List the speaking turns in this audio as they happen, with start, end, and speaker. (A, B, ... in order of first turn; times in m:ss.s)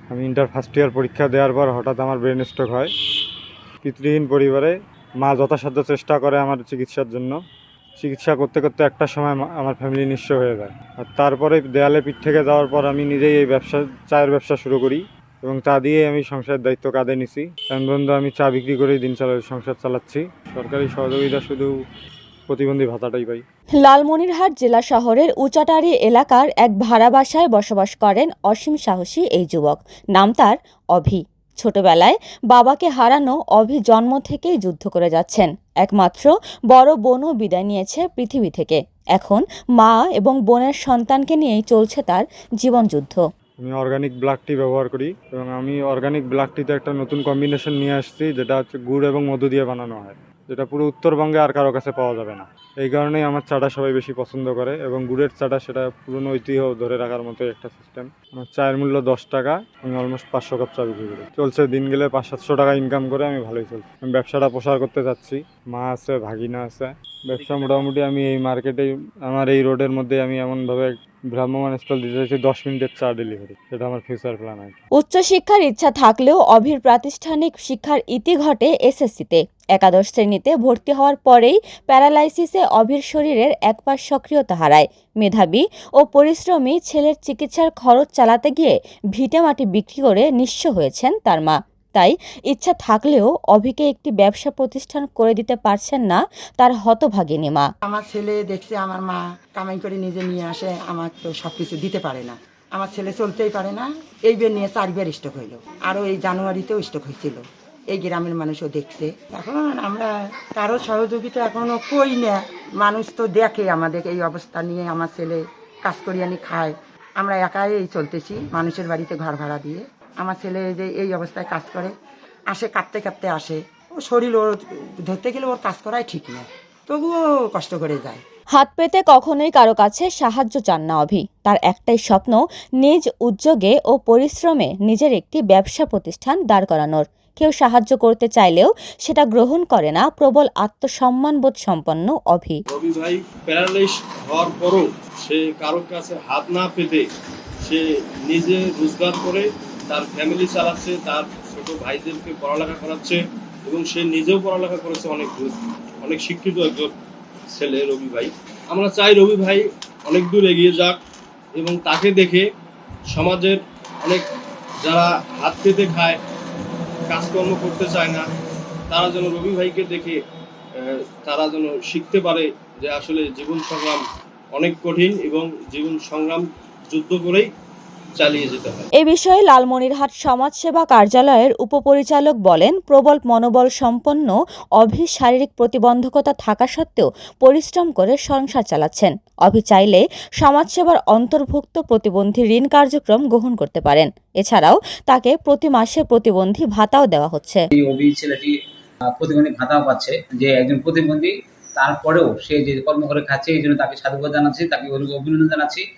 0:00.1-0:02.9 A
0:03.8-0:07.4 A
0:08.0-0:21.7 A
0:22.5-0:23.4 A
0:23.7-0:43.2 B
0:43.6-1:14.8 A
1:07.4-1:07.9 C
1:15.0-1:37.7 B
1:37.8-2:01.9 D
2:02.5-2:08.2 D
2:08.5-2:22.6 B
2:22.7-2:27.1 C
2:27.6-2:37.0 C
2:37.5-2:41.0 C
2:41.6-2:42.5 C
2:43.1-2:44.3 C
2:44.8-2:46.2 C
2:47.1-2:48.2 C
2:48.9-2:50.2 C
2:50.8-2:57.5 C
2:58.2-2:58.9 C
2:59.0-3:17.6 B
3:17.8-3:18.6 E
3:19.1-3:25.8 E